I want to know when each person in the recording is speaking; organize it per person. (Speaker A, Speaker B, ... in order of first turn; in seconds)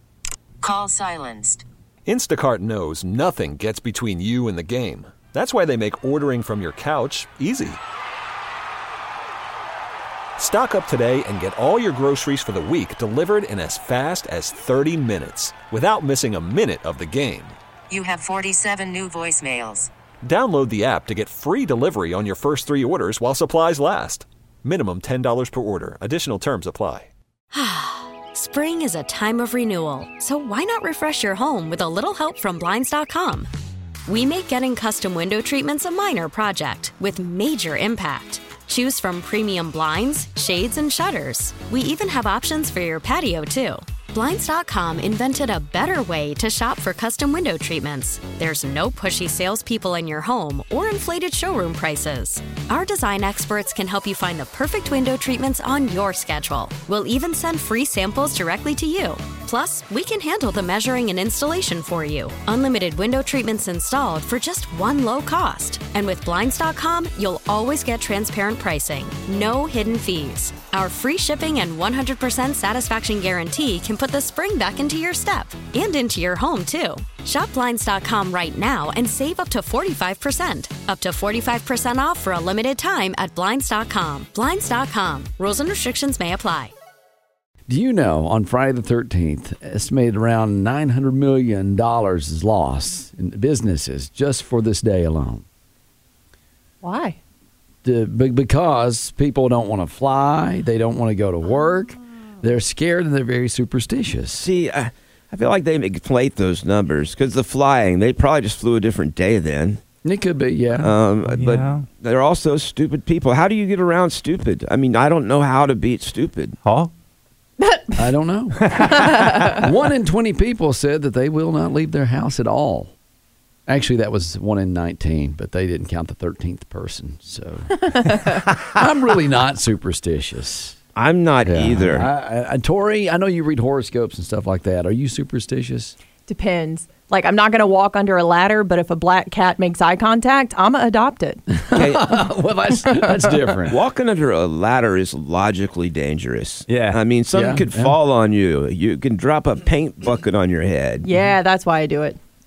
Speaker A: 0.6-1.6, 17.9-19.9
Speaker B: 2.1-7.8, 10.4-17.5, 20.2-27.1
Speaker C: 27.5-33.5, 34.1-86.7
Speaker D: 87.7-95.4, 97.8-104.4, 110.0-110.9, 118.0-118.8, 119.5-122.9, 123.7-127.8, 128.7-130.8, 131.4-135.9, 141.5-143.8, 147.3-147.9
Speaker E: 96.8-97.2, 117.6-118.0, 118.9-119.6, 136.3-141.5, 151.0-152.2
Speaker F: 104.3-109.8, 110.8-116.6, 130.9-132.1, 141.7-142.1, 143.7-151.1
Speaker G: 111.2-111.8, 116.6-116.9, 118.6-119.6, 146.7-147.0